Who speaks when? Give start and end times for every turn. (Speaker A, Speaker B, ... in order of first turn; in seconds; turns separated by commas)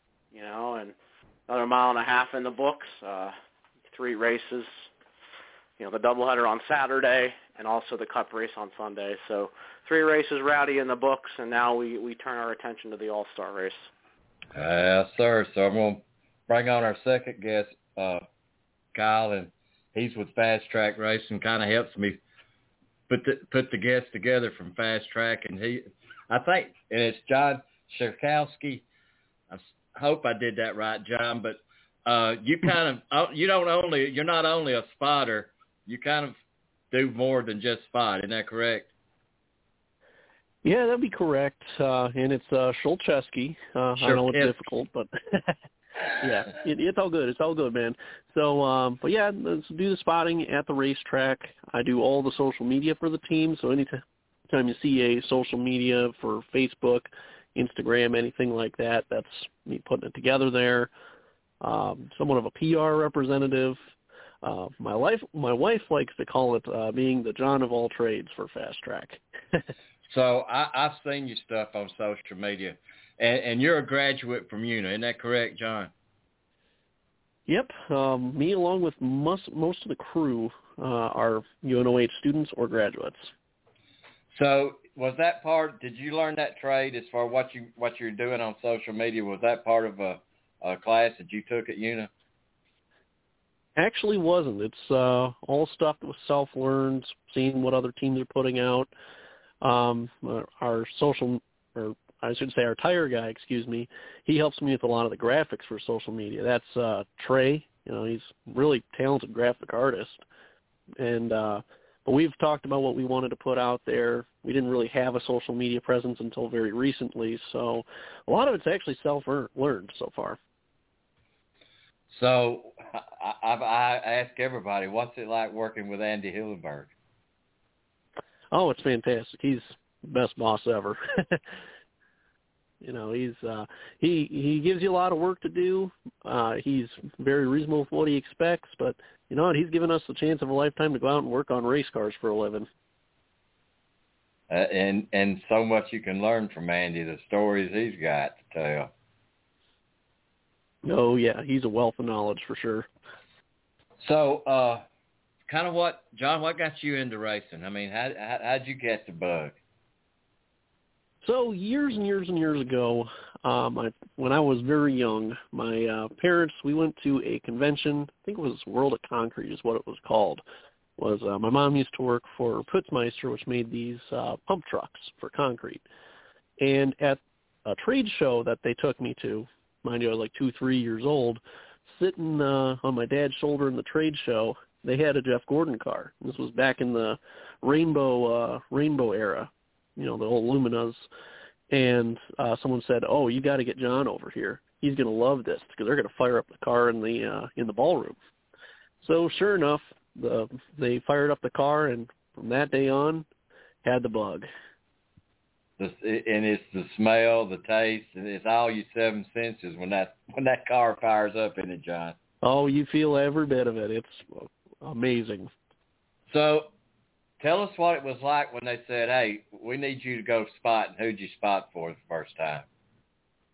Speaker A: 0.3-0.9, Speaker A: 1.5-3.3, Speaker A: 3.9-4.9, Speaker A: 5.8-13.9, Speaker B: 14.5-18.2, Speaker B: 18.9-22.2, Speaker B: 23.1-28.8, Speaker B: 29.5-36.4, Speaker B: 36.9-38.9, Speaker C: 40.6-45.5, Speaker B: 44.0-44.5, Speaker C: 46.2-60.9, Speaker C: 61.6-63.8, Speaker C: 64.4-69.2, Speaker B: 70.1-75.9, Speaker C: 77.5-83.3, Speaker B: 84.3-92.1, Speaker C: 93.8-98.9, Speaker C: 99.6-110.2, Speaker C: 111.0-120.4, Speaker B: 122.1-126.9, Speaker C: 128.5-131.4, Speaker C: 132.8-142.7, Speaker B: 144.5-148.9, Speaker C: 150.8-152.9, Speaker B: 154.0-154.8, Speaker B: 155.5-159.5, Speaker C: 161.2-170.4, Speaker C: 171.0-175.8, Speaker C: 176.6-191.1, Speaker C: 191.7-198.2, Speaker C: 199.0-203.3, Speaker C: 203.8-204.5, Speaker B: 205.8-212.2, Speaker C: 212.4-215.5, Speaker B: 216.3-216.7, Speaker B: 217.4-222.7